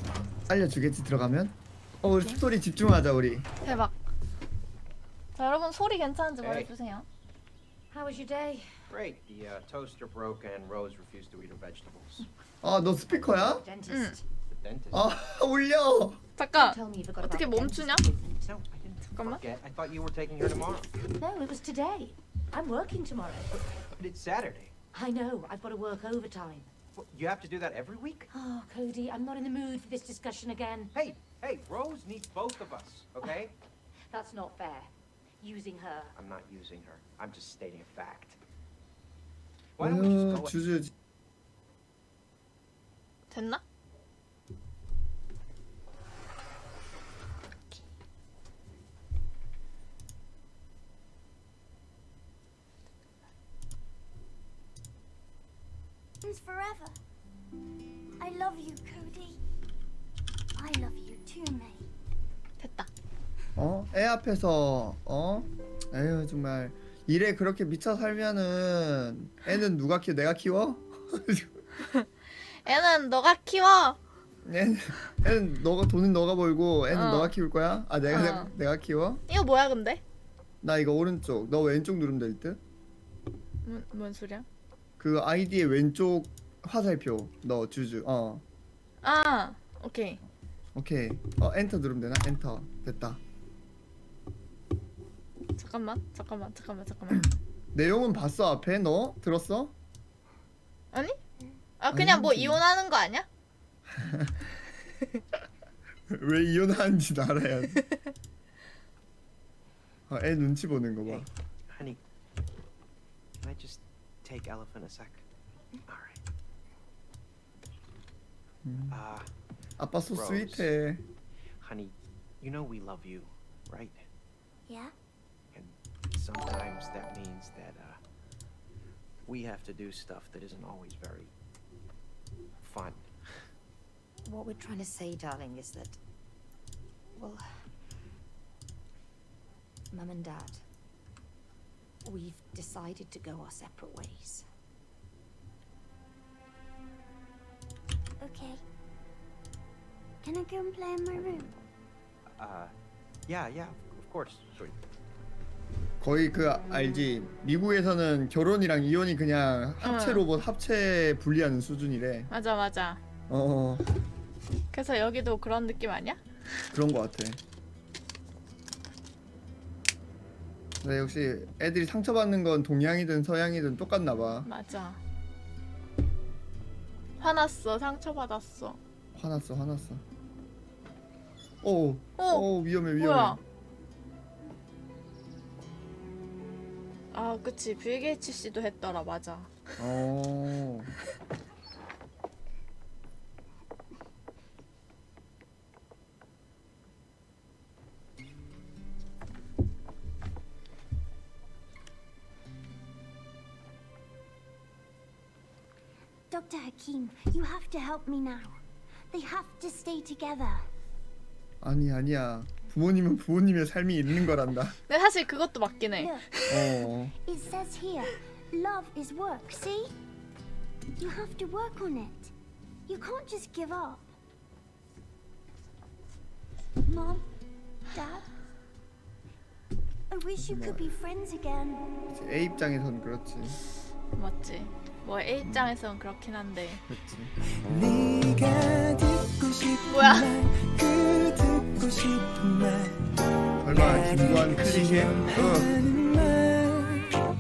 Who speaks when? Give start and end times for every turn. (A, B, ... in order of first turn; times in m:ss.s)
0:00.5-0:03.5 A
0:03.6-0:03.9 B
0:05.4-0:07.1 B
0:06.4-0:06.7 C
0:07.9-0:08.7 D
0:08.9-0:12.3 C
0:12.6-0:13.6 A
0:12.9-0:14.3 D
0:13.9-0:14.2 B
0:14.5-0:15.1 C
0:14.9-0:16.2 A
0:16.4-0:18.0 B
0:16.5-0:18.3 D
0:18.3-0:21.0 C
0:19.1-0:19.4 B
0:21.1-0:23.5 D
0:23.5-0:24.7 C
0:24.9-0:26.7 D
0:27.0-0:28.3 C
0:28.3-0:30.9 D
0:30.9-0:33.5 C
0:34.1-0:36.1 D
0:36.1-0:38.4 C
0:39.8-0:40.8 C
0:39.8-0:40.9 A
0:43.3-0:43.6 B
0:56.2-0:57.0 E
0:58.2-0:59.4 E
1:00.5-1:01.8 E
1:02.6-1:02.9 B
1:03.6-1:11.6 A
1:12.6-1:14.0 B
1:14.4-1:19.2 A
1:16.9-1:17.3 B
1:18.1-1:18.5 B
1:19.3-1:20.0 B
1:20.6-1:22.6 A
1:23.6-1:24.5 B
1:25.0-1:28.4 A
1:29.0-1:30.2 B
1:30.8-1:33.2 A
1:35.6-1:37.3 B
1:37.7-1:39.7 A
1:40.9-1:41.2 B
1:41.8-1:43.3 B
1:41.9-1:42.6 A
1:44.0-1:44.3 A
1:46.1-1:47.9 A
1:50.1-1:51.3 A
1:51.0-1:52.0 C
1:53.4-1:55.2 C
1:55.9-1:56.2 C
1:58.6-1:59.0 A
1:58.9-1:59.3 C
1:59.8-2:01.0 A
2:00.1-2:00.7 C
2:01.6-2:04.0 C
2:04.7-2:04.9 E
2:05.5-2:08.0 C
2:09.2-2:11.3 C
2:12.6-2:13.1 C
2:14.2-2:16.0 D
2:17.2-2:17.4 D
2:19.9-2:20.6 D
2:22.0-2:24.4 D
2:28.2-2:28.6 E
2:30.2-2:31.5 E
2:32.3-2:32.8 C
2:33.3-2:34.8 C
2:36.0-2:42.3 A
2:39.8-2:40.2 B
2:42.3-2:43.0 B
2:43.3-2:43.9 A
2:44.7-2:46.2 B
2:46.7-2:47.4 A
2:50.8-2:54.5 A
2:54.4-2:55.0 B
2:57.2-2:58.8 B
2:59.2-3:00.0 A
3:01.6-3:03.4 A
3:02.2-3:02.5 B
3:03.0-3:03.4 B
3:07.1-3:09.5 B
3:09.8-3:10.9 A
3:26.3-3:28.6 E
3:29.1-3:30.6 E
3:31.6-3:34.8 A
3:34.9-3:36.7 B
3:36.5-3:37.1 A
3:37.2-3:39.9 E
3:41.0-3:42.3 E
3:42.9-3:44.0 E
3:46.9-3:47.2 E
3:47.9-3:48.2 E
3:50.1-3:51.8 E
3:50.4-3:50.9 A
3:52.1-3:53.6 A
3:54.1-3:56.8 B
3:55.5-3:55.7 A
3:56.9-3:57.3 A
3:57.7-4:03.0 F
3:59.9-4:00.3 B
4:03.6-4:05.8 A
4:03.8-4:07.1 F